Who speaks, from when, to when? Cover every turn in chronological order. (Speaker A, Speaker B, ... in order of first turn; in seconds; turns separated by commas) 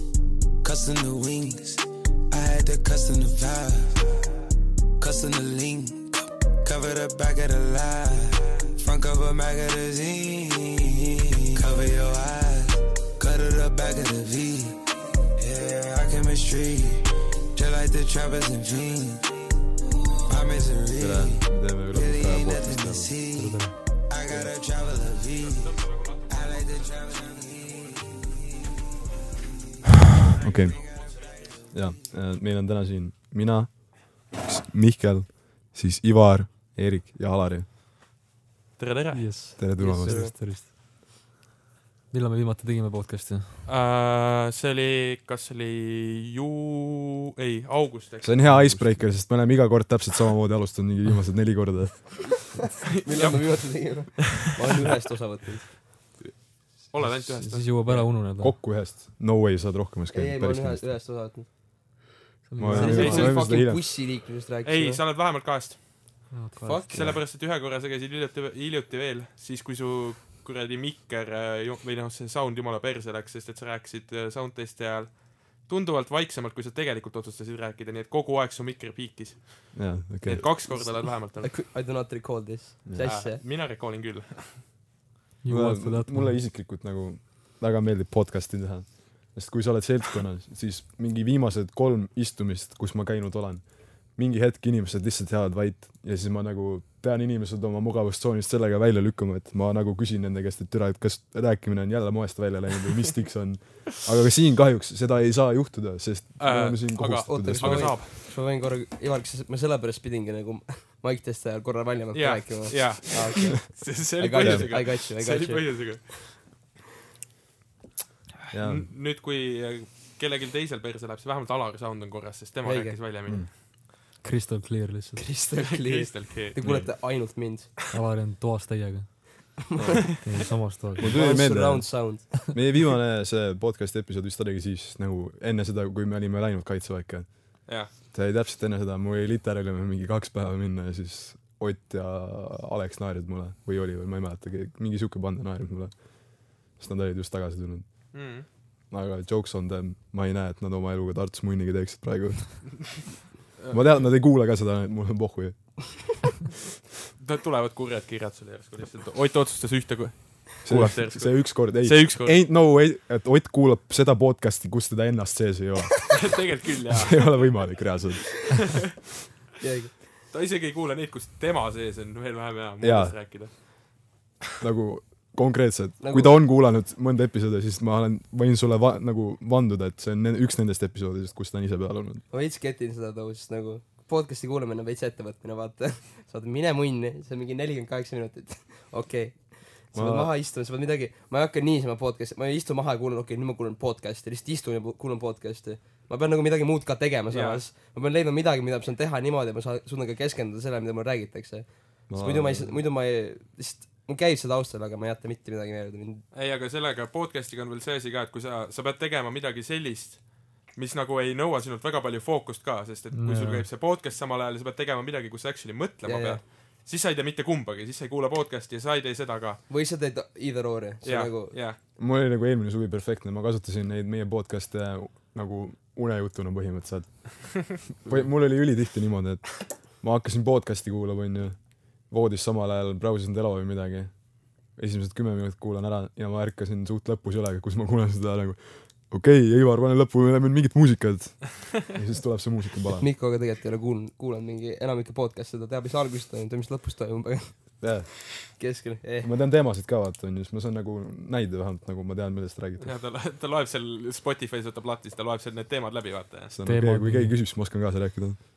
Speaker A: 0.6-4.0, Speaker A: 5.0-14.8, Speaker A: 15.3-19.4, Speaker A: 20.2-28.8, Speaker B: 20.9-23.2, Speaker C: 23.3-23.8, Speaker D: 25.5-26.6, Speaker B: 30.4-30.8, Speaker A: 30.6-31.7, Speaker B: 31.7-37.6, Speaker D: 38.8-39.6, Speaker C: 39.1-40.7, Speaker B: 39.6-40.3, Speaker E: 39.8-40.3, Speaker C: 42.1-43.6, Speaker D: 43.6-48.5, Speaker B: 48.2-52.5, Speaker C: 48.4-48.9, Speaker E: 53.0-55.8, Speaker D: 53.0-54.1, Speaker D: 56.2-58.1, Speaker C: 57.0-58.5, Speaker B: 58.4-61.0, Speaker E: 60.1-61.5, Speaker C: 62.5-63.4, Speaker B: 62.6-63.8, Speaker E: 62.7-65.0, Speaker D: 62.8-63.4, Speaker D: 64.6-81.5, Speaker C: 66.3-66.9, Speaker B: 66.9-67.2, Speaker B: 79.7-80.5, Speaker E: 80.7-83.4, Speaker D: 83.0-84.7, Speaker C: 85.4-86.4, Speaker B: 85.5-108.0, Speaker D: 106.4-108.1, Speaker E: 107.3-116.1, Speaker D: 112.1-116.4, Speaker B: 114.4-114.7, Speaker B: 118.5-118.9, Speaker D: 118.5-123.6, Speaker E: 122.6-123.0, Speaker C: 124.2-125.3, Speaker E: 125.2-127.8, Speaker D: 125.6-127.4, Speaker C: 127.9-131.2, Speaker B: 129.7-130.1, Speaker B: 131.0-153.1, Speaker E: 131.0-132.3, Speaker D: 148.1-148.5, Speaker B: 153.7-156.4, Speaker D: 157.2-162.4, Speaker B: 160.6-166.2, Speaker D: 166.1-168.0, Speaker B: 166.9-168.9, Speaker E: 169.6-170.0, Speaker D: 170.3-173.9, Speaker B: 172.8-173.2, Speaker B: 174.6-182.2, Speaker E: 176.0-176.4, Speaker E: 182.3-206.2, Speaker B: 189.9-190.3, Speaker D: 197.3-197.6, Speaker B: 202.1-202.8, Speaker D: 206.3-219.6, Speaker C: 213.1-213.7, Speaker E: 216.0-216.4, Speaker E: 219.7-221.6, Speaker D: 221.0-221.8, Speaker B: 221.9-243.0, Speaker E: 243.0-249.3, Speaker B: 247.8-248.6, Speaker B: 249.2-253.0, Speaker D: 252.8-256.5, Speaker B: 256.5-258.4, Speaker C: 256.6-257.4